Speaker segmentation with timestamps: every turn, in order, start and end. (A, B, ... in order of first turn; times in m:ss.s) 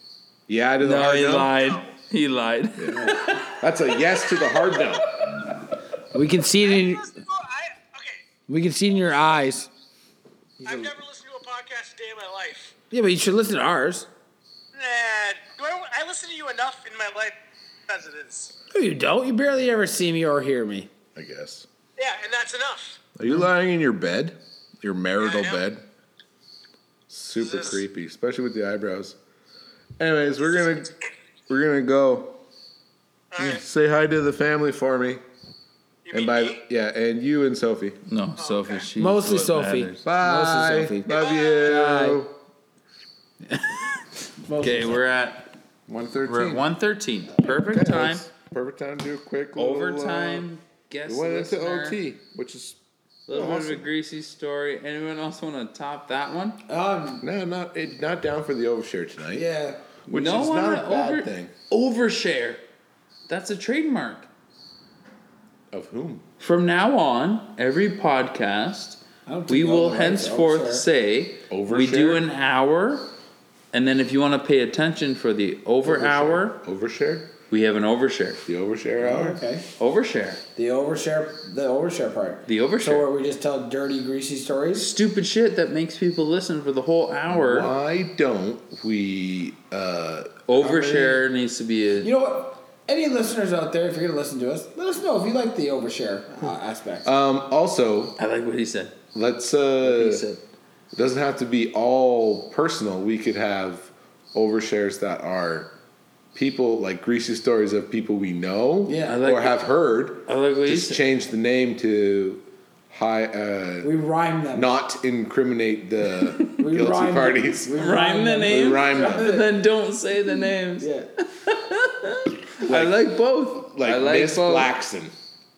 0:00.5-0:01.6 A
0:00.8-0:03.6 B
0:01.6-0:01.9 C
0:02.8-0:05.4 A
0:02.9-0:03.3 D
0:06.1-0:07.1 D
0:06.6-0:08.2 C
0:08.5-0:09.7 D
0:10.6-0:10.9 D
0:10.6-0:12.7 C
0:12.9-0:14.1 D
0:14.7-0:18.5 C
0:18.7-0:20.9 D
0:21.2-0:21.7 A
0:22.0-0:23.0 C
0:23.2-0:25.8 A
0:25.2-0:25.6 C
0:27.1-0:29.2 A
0:27.4-0:27.8 C
0:30.0-0:30.9 A
0:31.5-0:32.4 A
0:33.3-0:33.6 C
0:33.4-0:35.2 A
0:36.1-0:36.6 C
0:36.1-0:38.0 A
0:38.1-0:40.0 B
0:38.4-0:38.9 C
0:39.0-0:42.2 D
0:40.0-0:42.3 A
0:41.1-0:41.7 C
0:44.4-0:45.0 D
0:44.6-0:45.5 B
0:45.9-0:46.6 A
0:46.3-0:48.3 B
0:47.4-0:50.5 A
0:49.6-0:52.0 B
0:51.1-0:53.9 A
0:53.3-0:56.6 B
0:56.7-0:57.2 D
0:57.2-0:59.4 A
0:59.3-0:59.8 D
1:00.1-1:01.5 A
1:00.1-1:02.6 B
1:03.3-1:04.3 B
1:05.7-1:06.2 A
1:06.4-1:13.1 B
1:09.3-1:10.9 D
1:11.5-1:12.2 A
1:13.7-1:16.6 B
1:15.8-1:17.3 A
1:17.5-1:18.4 B
1:18.5-1:19.4 A
1:19.0-1:19.6 D
1:19.8-1:20.4 B
1:20.6-1:24.9 D
1:22.5-1:23.1 B
1:24.8-1:27.7 B
1:27.3-1:31.1 A
1:30.5-1:32.1 B
1:32.0-1:37.1 D
1:37.0-1:38.2 A
1:38.2-1:39.0 B
1:39.1-1:40.2 A
1:39.8-1:40.4 B
1:40.9-1:45.7 A
1:46.4-1:53.9 A
1:48.9-1:49.3 D
1:49.1-1:49.6 B
1:50.3-1:51.0 B
1:53.8-1:54.8 D
1:54.5-1:57.9 A
1:56.5-1:59.5 D
1:57.8-2:04.7 B
1:58.4-1:59.3 A
2:00.8-2:01.1 D
2:02.6-2:05.1 A